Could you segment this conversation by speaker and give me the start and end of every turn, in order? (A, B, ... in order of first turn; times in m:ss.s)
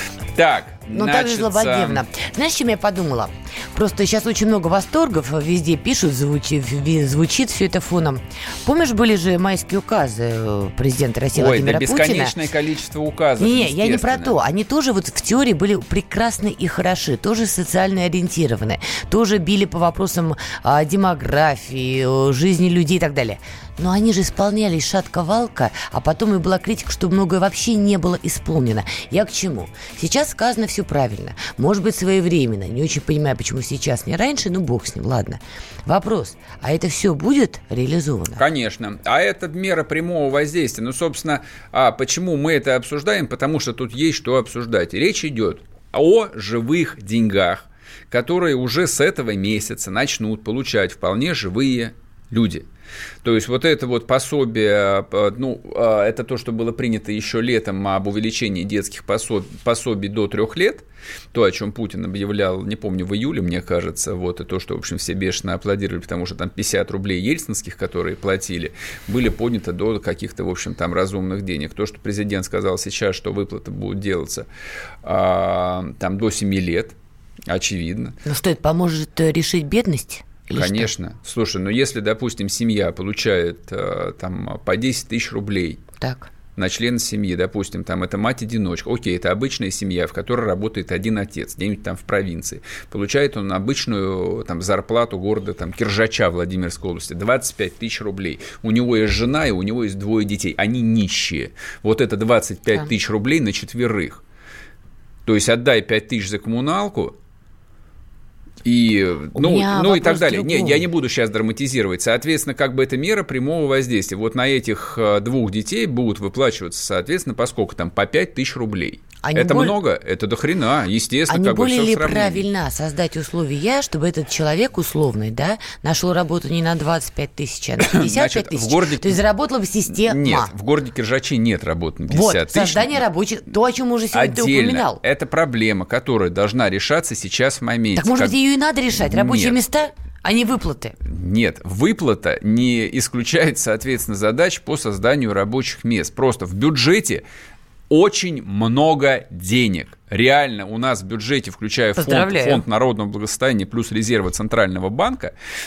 0:00.3-0:02.0 A
0:00.9-0:12.4 B
0:11.3-0:14.4 A
0:13.4-0:38.4 B
0:38.4-0:52.6 A
0:53.2-1:14.4 A
1:15.0-1:17.0 A
1:17.5-1:18.2 A
1:18.2-1:20.9 B
1:20.5-1:25.8 A
1:26.0-1:26.3 B
1:26.6-1:44.2 A
1:45.2-1:47.2 A
1:48.6-2:02.4 A
1:49.3-1:50.8 B
1:59.2-1:59.7 B
2:01.3-2:10.5 B
2:07.8-2:09.2 A
2:09.9-2:13.0 A
2:12.1-2:15.0 B
2:14.1-2:18.4 A
2:18.0-2:21.0 B
2:18.9-2:19.6 A
2:21.0-2:27.2 A
2:27.9-2:35.3 A
2:32.0-2:32.6 B